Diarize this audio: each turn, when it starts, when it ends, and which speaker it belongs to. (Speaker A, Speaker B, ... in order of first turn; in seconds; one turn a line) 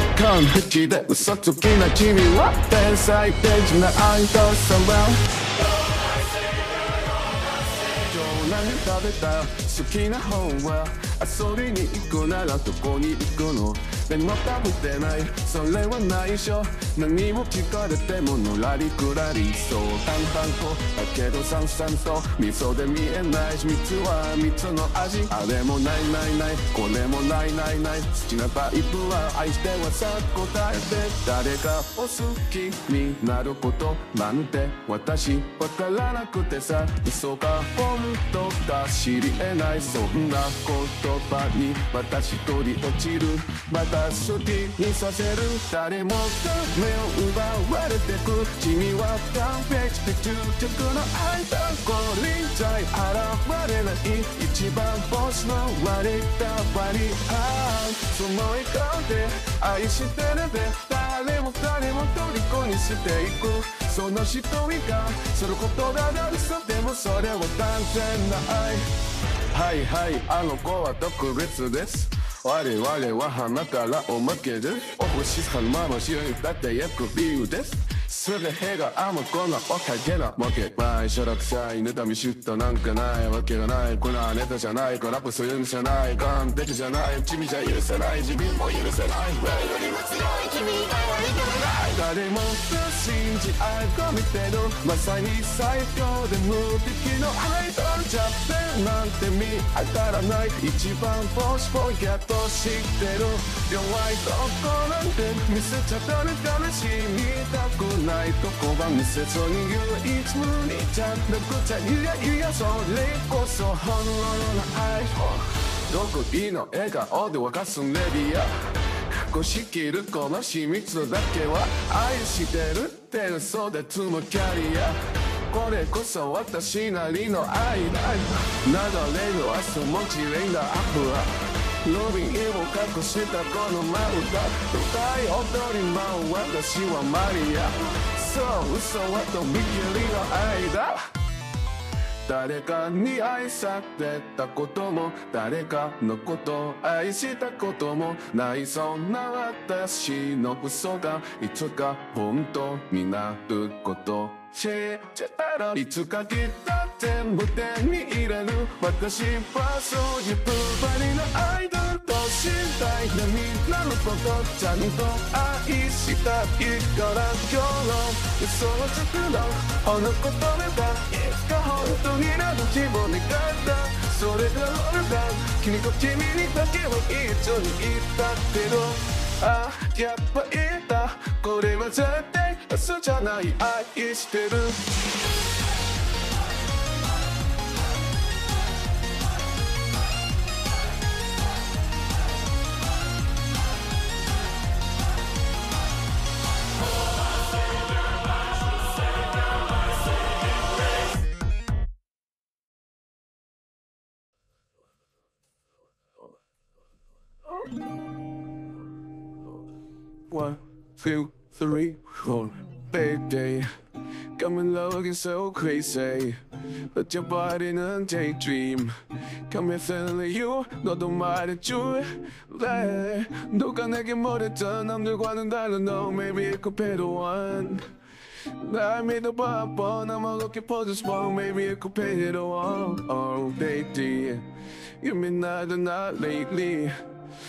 Speaker A: 0.1-5.2
Speaker A: 7.9-68.9
Speaker A: 69.5-118.5
Speaker A: 119.3-125.0
Speaker A: 125.5-131.3
Speaker A: 131.8-141.0
Speaker A: 142.3-184.8
Speaker A: 210.3-213.7
Speaker A: 214.4-216.4
Speaker A: 216.9-218.9
Speaker A: 219.5-227.8
Speaker A: 228.6-234.4
Speaker A: 235.0-237.0